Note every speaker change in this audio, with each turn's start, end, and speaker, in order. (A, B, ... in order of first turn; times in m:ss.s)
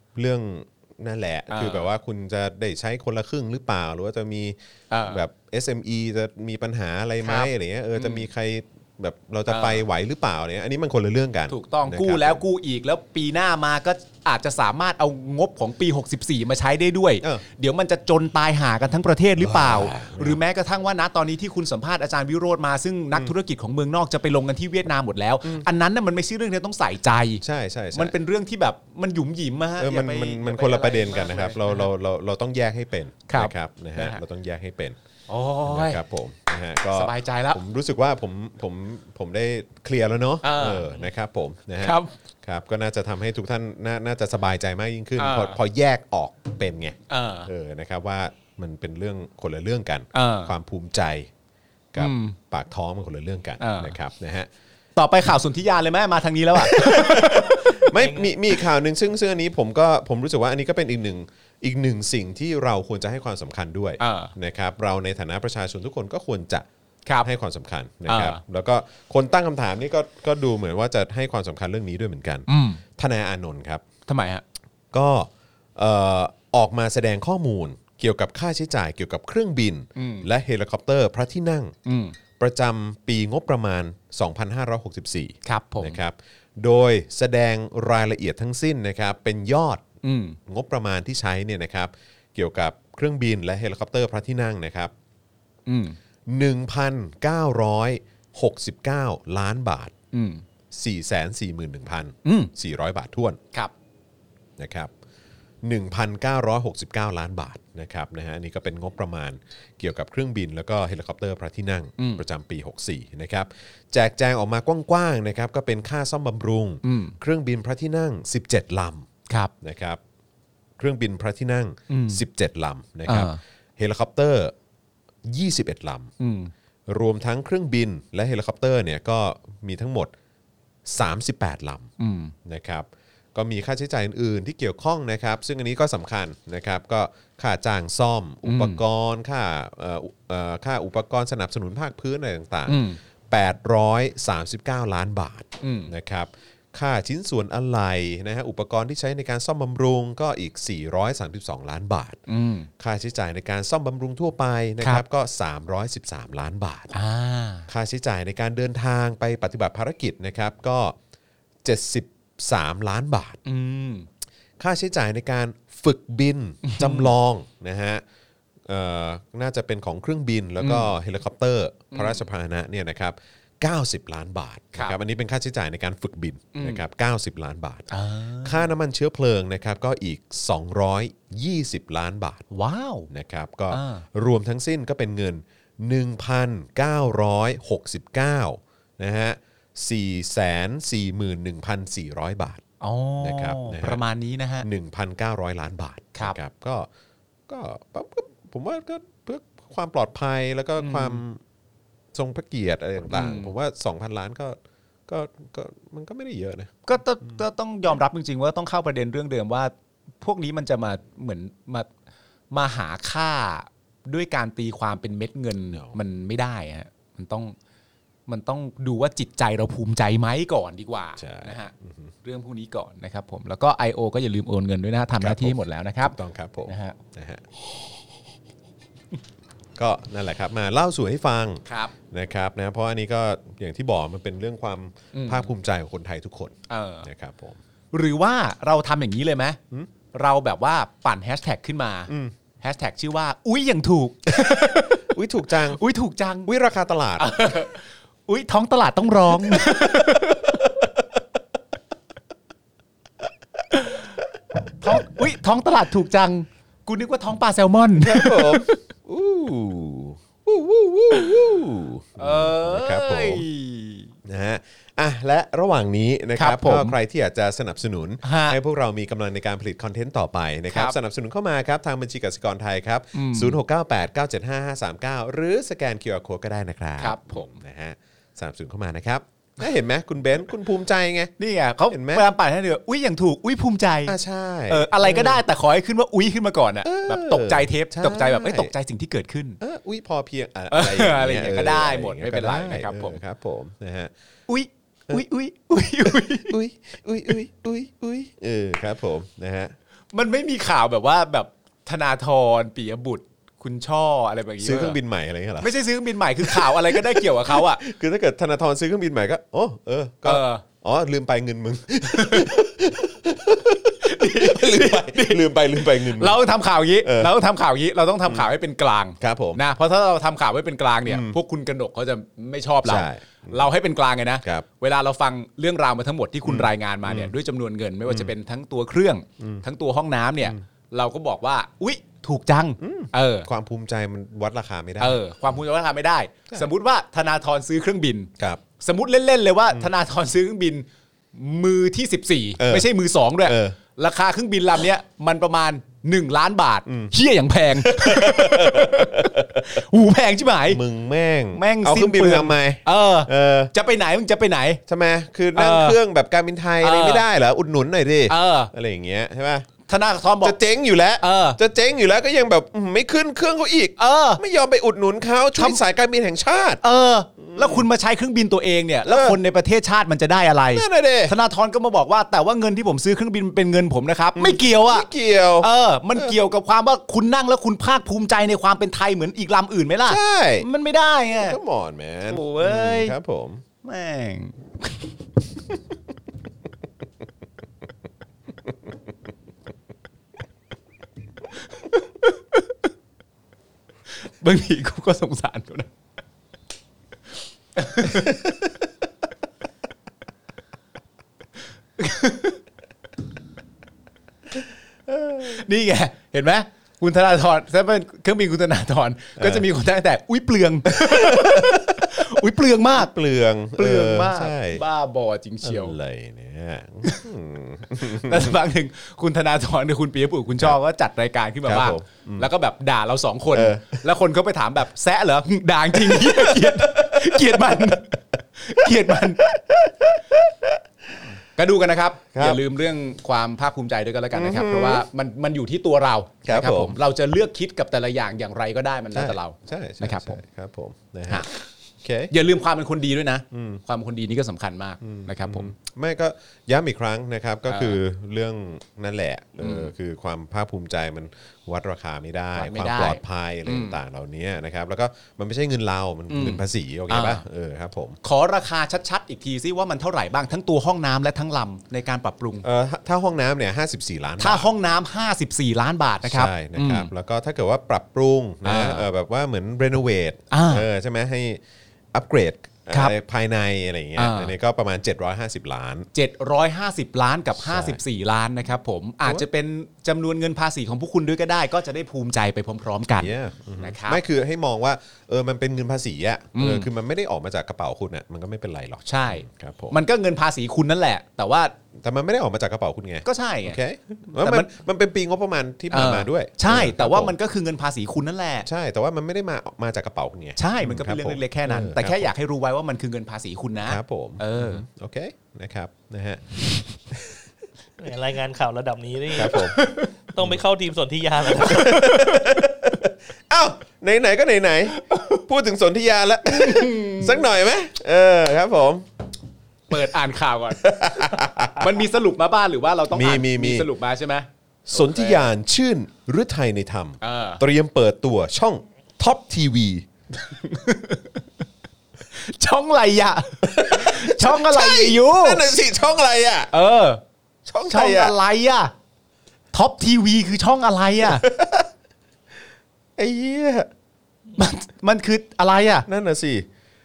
0:00.2-0:12.4 A
0:01.5-0:01.9 B
0:04.9-0:05.2 B
0:07.2-0:08.2 B
0:09.5-0:09.8 B
0:11.5-0:31.9 B
0:19.4-0:20.4 A
0:27.4-0:28.1 A
0:29.8-0:35.0 A
0:33.3-0:34.2 B
0:35.3-0:36.0 B
0:35.6-0:51.3 A
0:36.9-0:37.6 B
0:40.4-0:41.0 B
0:41.8-0:42.1 B
0:45.2-0:45.6 B
0:47.1-0:47.5 B
0:50.1-0:50.5 B
0:51.9-0:54.5 A
0:52.0-0:52.4 B
0:53.6-0:54.0 B
0:55.0-0:58.6 B
0:56.5-1:06.7 A
1:04.0-1:04.3 B
1:07.2-1:13.8 A
1:08.1-1:08.4 B
1:12.5-1:12.8 B
1:14.1-1:14.4 B
1:14.9-1:21.7 A
1:20.0-1:20.3 B
1:21.8-1:22.2 B
1:22.4-1:29.8 A
1:25.4-1:26.0 B
1:30.0-1:30.4 B
1:30.4-1:34.9 A
1:35.7-1:36.0 B
1:36.3-1:39.9 A
1:40.1-1:40.4 B
1:40.7-1:43.4 A
1:42.2-1:42.5 B
1:44.6-1:44.9 A
1:45.6-1:59.1 A
1:52.0-1:52.2 B
1:56.8-1:57.2 B
1:59.6-2:00.0 A
2:00.8-2:04.5 A
2:01.9-2:02.2 B
2:03.1-2:03.4 B
2:05.2-2:06.1 A
2:06.2-2:06.5 B
2:06.9-2:10.1 A
2:10.8-2:11.9 A
2:12.0-2:12.3 B
2:12.4-2:32.2 A
2:18.4-2:18.8 B
2:22.7-2:23.0 B
2:25.6-2:25.9 B
2:32.3-2:32.7 B
2:32.8-2:36.9 A
2:36.9-2:37.7 B
2:37.7-2:41.0 A
2:41.6-2:43.4 A
2:43.4-2:44.1 B
2:44.6-2:48.0 A
2:46.6-2:47.1 B
2:48.6-2:57.9 A
2:50.6-2:50.9 B
2:51.9-2:52.2 B
2:56.5-2:56.8 B
2:57.9-2:58.7 B
2:58.4-3:02.4 A
3:02.5-3:03.1 B
3:03.1-3:12.6 A
3:03.7-3:04.0 B
3:12.8-3:14.7 B
3:13.2-3:14.0 A
3:14.6-3:16.9 A
3:17.5-3:21.4 A
3:20.8-3:21.2 B
3:22.1-3:27.4 A
3:23.1-3:23.5 B
3:26.8-3:31.9 B
3:32.5-3:37.5 B
3:38.3-3:41.7 B
3:41.2-3:42.1 A
3:42.2-3:47.0 B
3:45.2-3:47.4 A
3:49.8-3:57.6 A
3:51.6-3:51.9 B
3:55.1-3:55.5 B
3:56.7-3:57.1 B
3:57.9-3:59.6 B
4:00.1-4:05.0 B
4:02.1-4:02.3 A
4:04.4-4:05.8 A
4:05.7-4:06.5 B
4:06.4-4:07.3 A
4:07.2-4:10.7 B
4:09.5-4:10.8 A
4:14.8-4:18.8 B
4:18.0-4:23.4 A
4:22.2-4:24.1 B
4:24.2-4:41.3 A
4:26.4-4:27.0 B
4:28.2-4:28.6 B
4:30.7-4:31.0 B
4:33.1-4:33.6 B
4:37.0-4:37.6 B
4:41.4-4:44.2 B
4:41.9-4:42.2 A
4:44.0-4:45.4 A
4:44.7-4:49.6 B
4:46.8-4:48.7 A
4:49.6-4:54.1 A
4:50.7-4:53.2 B
4:54.5-4:56.6 B
4:56.0-4:59.7 A
5:00.1-5:05.0 B
5:04.6-5:05.7 A
5:05.6-5:07.8 B
5:06.4-5:16.4 A
5:10.2-5:10.6 B
5:12.1-5:12.6 B
5:14.0-5:33.5 B
5:17.0-5:17.3 A
5:19.2-5:19.6 A
5:21.0-5:21.4 A
5:22.8-5:23.7 A
5:26.4-5:27.3 A
5:28.1-5:28.3 A
5:32.8-5:35.2 A
5:35.0-5:50.8 B
5:42.6-5:42.9 A
5:43.4-5:43.8 A
5:46.9-5:47.1 A
5:47.8-5:49.8 A
5:50.7-5:53.7 A
5:51.5-5:54.8 B
5:54.9-5:59.7 A
5:55.5-5:56.0 B
5:56.8-5:57.2 B
5:58.3-5:58.7 B
5:59.9-6:00.6 B
6:00.4-6:06.8 A
6:01.2-6:01.6 B
6:04.0-6:04.4 B
6:06.8-6:15.1 B
6:07.4-6:07.8 A
6:09.0-6:09.4 A
6:10.7-6:11.3 A
6:14.3-6:16.3 A
6:15.6-6:21.6 B
6:20.1-6:20.6 A
6:21.4-6:23.6 A
6:22.3-6:23.1 B
6:23.8-6:25.1 B
6:31.7-6:32.8 B
6:34.4-6:35.9 B
6:37.7-6:38.4 B
6:42.0-6:42.6 B
6:45.2-6:45.5 A
6:45.3-6:53.1 B
6:49.4-6:49.6 A
6:50.9-6:52.1 A
6:52.9-6:54.8 A
6:53.8-6:56.0 B
6:55.6-6:58.6 A
6:58.0-7:09.4 B
7:01.6-7:02.5 A
7:03.5-7:04.0 A
7:05.9-7:08.0 A
7:08.8-7:10.8 A
7:11.6-7:20.4 B
7:12.3-7:12.6 A
7:14.3-7:15.1 A
7:16.4-7:17.0 A
7:19.1-7:21.5 A
7:22.0-7:22.3 A
7:22.3-7:25.7 B
7:23.5-7:23.8 A
7:25.0-7:38.2 A
7:27.7-7:28.0 B
7:29.6-7:29.9 B
7:32.5-7:34.0 B
7:36.3-7:37.4 B
7:38.2-7:42.6 B
7:42.6-7:44.7 A
7:44.4-7:47.1 B
7:46.2-7:51.6 A
7:48.6-7:49.0 B
7:50.5-7:50.8 B
7:52.1-7:56.1 A
7:54.2-7:54.5 B
7:56.1-8:04.2 B
7:57.6-7:58.0 A
8:03.2-8:10.0 A
8:06.5-8:06.9 B
8:09.0-8:11.7 B
8:12.0-8:17.3 A
8:13.2-8:14.7 B
8:15.9-8:18.7 B
8:18.6-8:22.3 A
8:20.6-8:24.8 B
8:23.8-8:27.4 A
8:28.0-8:29.7 C
8:29.3-8:29.8 A
8:29.5-8:30.1 B
8:30.3-8:32.0 C
8:31.5-8:39.1 A
8:31.6-8:32.6 B
8:34.9-8:35.4 B
8:36.4-8:37.4 B
8:39.9-8:45.5 B
8:40.8-8:42.0 A
8:43.1-8:43.9 A
8:44.9-8:50.0 A
8:47.2-8:47.6 B
8:50.4-8:51.4 B
8:52.3-8:55.6 B
8:53.6-8:56.7 A
8:56.7-8:57.2 B
8:57.7-8:58.3 A
8:57.8-8:58.9 B
8:59.7-9:01.5 B
9:01.2-9:01.9 A
9:03.2-9:03.9 A
9:04.6-9:06.1 B
9:06.0-9:06.6 A